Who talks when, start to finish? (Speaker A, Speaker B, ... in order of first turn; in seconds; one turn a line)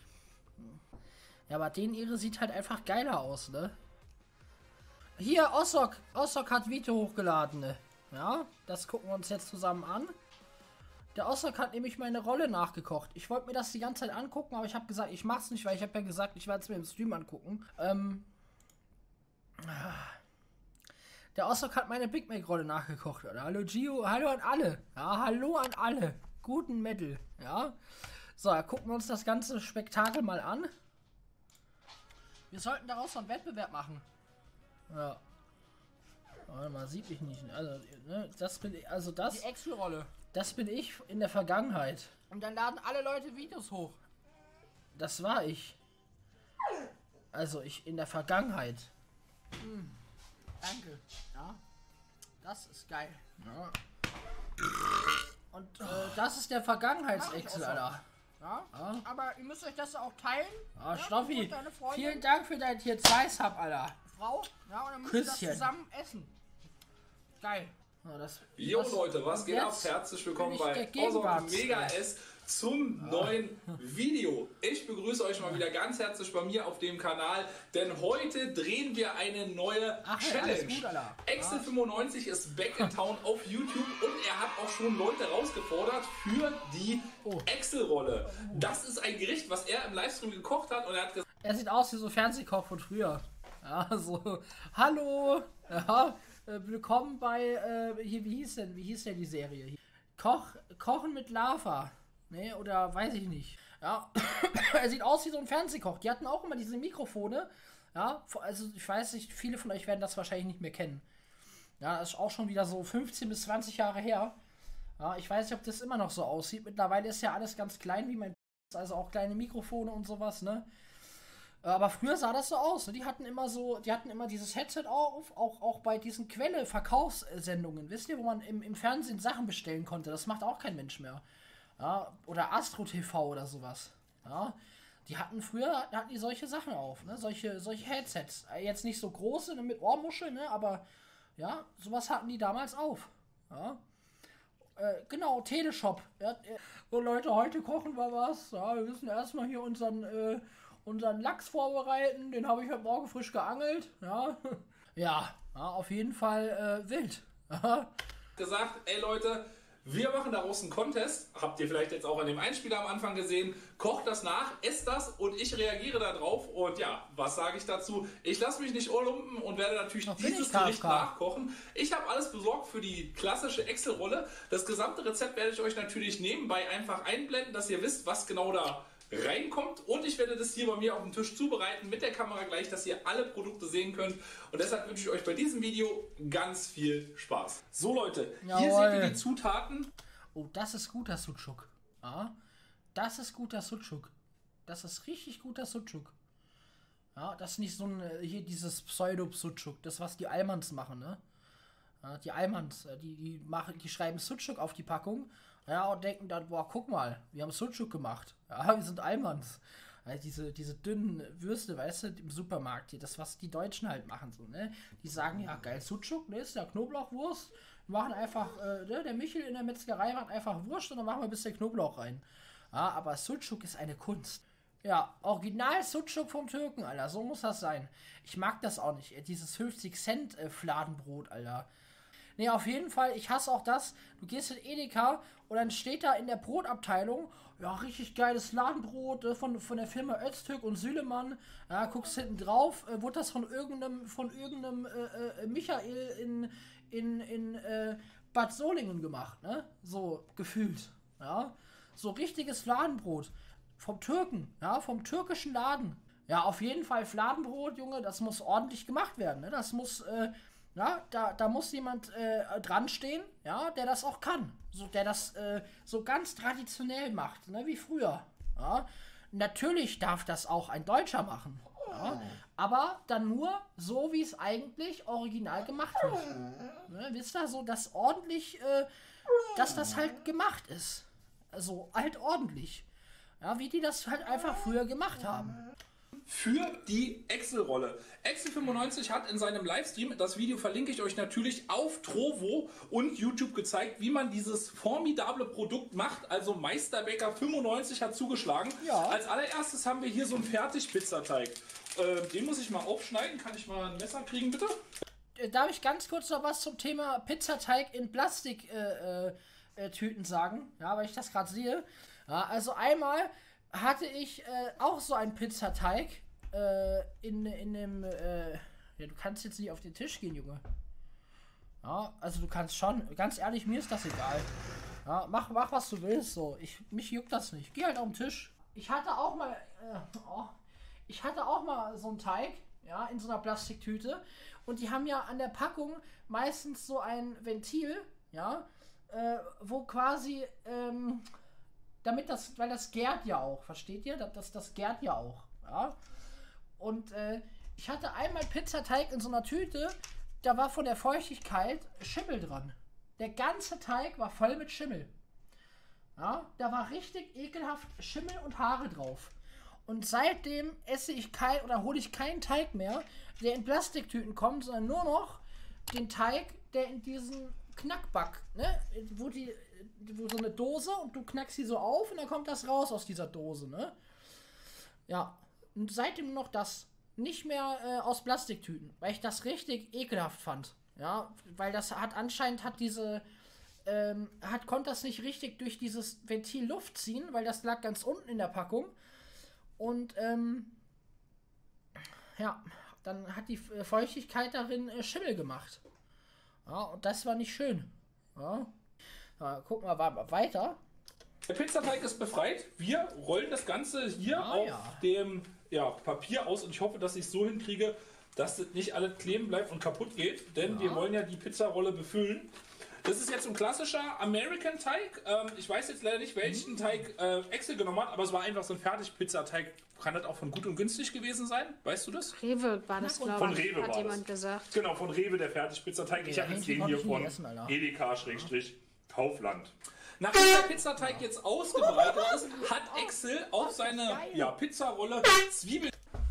Speaker A: 1.5-3.8
Speaker A: 5.2-10.2
Speaker A: 11.2-18.3
Speaker A: 19.6-20.2
Speaker A: 21.4-30.7
Speaker A: 32.5-34.0
Speaker A: 34.9-35.2
Speaker A: 36.5-39.5
Speaker B: 39.3-40.1
Speaker A: 40.2-43.9
Speaker B: 42.9-43.8
Speaker A: 45.0-45.8
Speaker A: 47.3-48.9
Speaker B: 49.6-49.9
Speaker B: 50.6-51.0
Speaker A: 51.3-51.6
Speaker B: 52.4-53.3
Speaker A: 53.3-53.8
Speaker A: 55.5-58.0
Speaker B: 57.1-62.2
Speaker A: 58.7-59.0
Speaker A: 60.8-64.0
Speaker B: 64.1-66.3
Speaker A: 65.0-65.7
Speaker B: 67.4-67.7
Speaker A: 68.0-72.0
Speaker C: 68.6-91.3
Speaker A: 73.0-73.4
Speaker A: 80.0-81.8
Speaker A: 88.3-88.7
Speaker A: 91.4-111.0
Speaker A: 111.8-114.3
Speaker A: 115.0-120.7
Speaker A: 121.6-131.2
Speaker A: 131.8-140.8
Speaker A: 141.4-143.8
Speaker A: 144.8-157.9
Speaker C: 158.4-189.9
Speaker A: 170.1-171.1
Speaker A: 188.4-189.2
Speaker A: 190.3-192.3
Speaker A: 192.9-194.1
Speaker A: 194.7-196.2
Speaker A: 197.2-201.2
Speaker A: 202.0-231.7
Speaker A: 232.4-278.9
Speaker A: 279.5-282.9
Speaker A: 283.4-285.6
Speaker C: 286.3-304.8
Speaker A: 298.8-299.2
Speaker A: 305.4-320.6
Speaker A: 321.8-324.5
Speaker A: 325.1-330.6
Speaker A: 331.1-341.3
Speaker A: 342.0-346.0
Speaker A: 346.8-355.1
Speaker A: 356.2-359.3
Speaker A: 359.9-373.9
Speaker A: 375.1-383.2
Speaker A: 383.9-388.9
Speaker A: 389.8-390.8
Speaker A: 392.4-395.8
Speaker A: 396.7-398.7
Speaker A: 399.4-400.8
Speaker C: 401.5-412.5
Speaker A: 404.2-405.0
Speaker A: 410.7-411.1
Speaker C: 413.0-422.4
Speaker A: 416.4-416.9
Speaker D: 422.2-424.7
Speaker A: 423.0-423.6
Speaker C: 423.3-435.9
Speaker A: 426.2-428.5
Speaker A: 431.0-431.2
Speaker A: 433.9-434.5